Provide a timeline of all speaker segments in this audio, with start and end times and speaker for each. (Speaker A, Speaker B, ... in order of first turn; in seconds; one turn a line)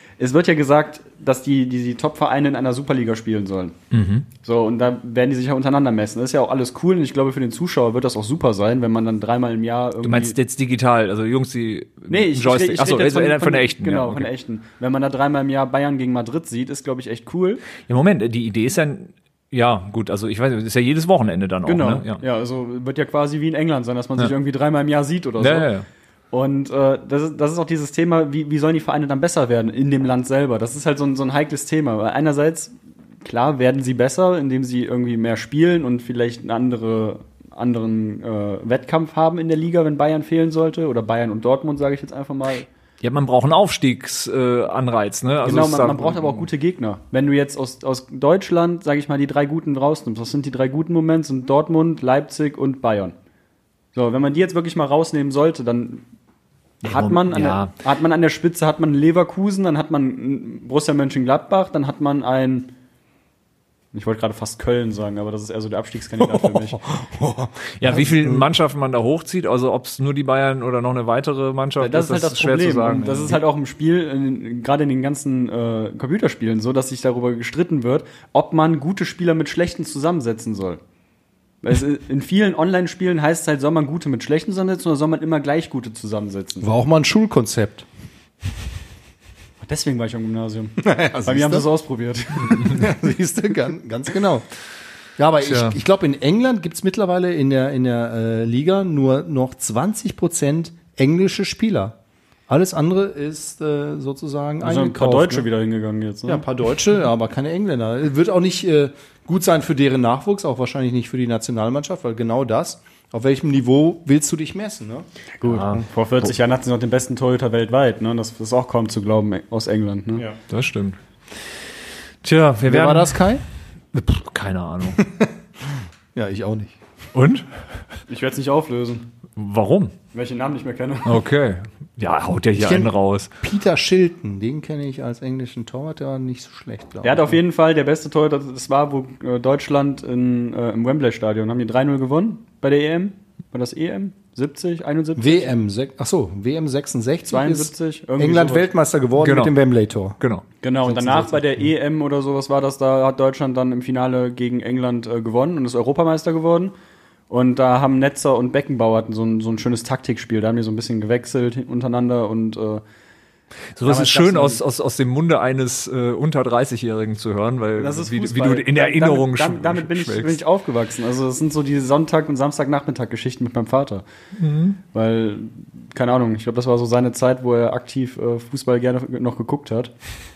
Speaker A: 0.2-3.8
Speaker B: 3.9-4.3
Speaker A: 4.4-10.4
Speaker B: 10.0-14.3
Speaker A: 12.1-17.6
Speaker B: 17.9-22.2
Speaker A: 21.7-25.7
Speaker B: 25.4-25.9
Speaker A: 26.3-42.7
Speaker B: 43.0-46.5
Speaker A: 45.4-53.1
Speaker A: 54.0-56.1
Speaker A: 56.8-62.7
Speaker B: 56.8-57.7
Speaker A: 63.9-66.8
Speaker C: 66.2-68.5
Speaker B: 67.8-73.4
Speaker A: 71.8-80.8
Speaker A: 81.6-86.7
Speaker C: 86.6-87.9
Speaker A: 89.6-92.9
Speaker C: 90.8-91.7
Speaker C: 92.5-94.5
Speaker C: 95.2-102.0
Speaker B: 95.4-95.8
Speaker C: 102.5-105.5
Speaker A: 104.6-106.5
Speaker C: 106.3-115.1
Speaker A: 115.4-120.3
Speaker B: 115.5-115.9
Speaker B: 120.5-121.0
Speaker B: 122.2-123.2
Speaker C: 122.6-123.4
Speaker B: 123.9-125.0
Speaker C: 125.0-125.3
Speaker C: 126.1-126.8
Speaker B: 127.1-127.5
Speaker A: 128.1-129.1
Speaker B: 129.4-129.9
Speaker A: 130.1-131.2
Speaker B: 131.1-133.3
Speaker C: 132.6-137.4
Speaker A: 137.0-145.5
Speaker C: 145.2-150.2
Speaker A: 147.3-148.7
Speaker B: 149.2-149.6
Speaker B: 150.2-150.4
Speaker A: 150.6-156.7
Speaker C: 150.8-151.4
Speaker A: 157.3-162.8
Speaker B: 163.8-170.4
Speaker A: 163.8-164.6
Speaker A: 167.8-174.0
Speaker B: 174.4-174.8
Speaker A: 174.9-179.9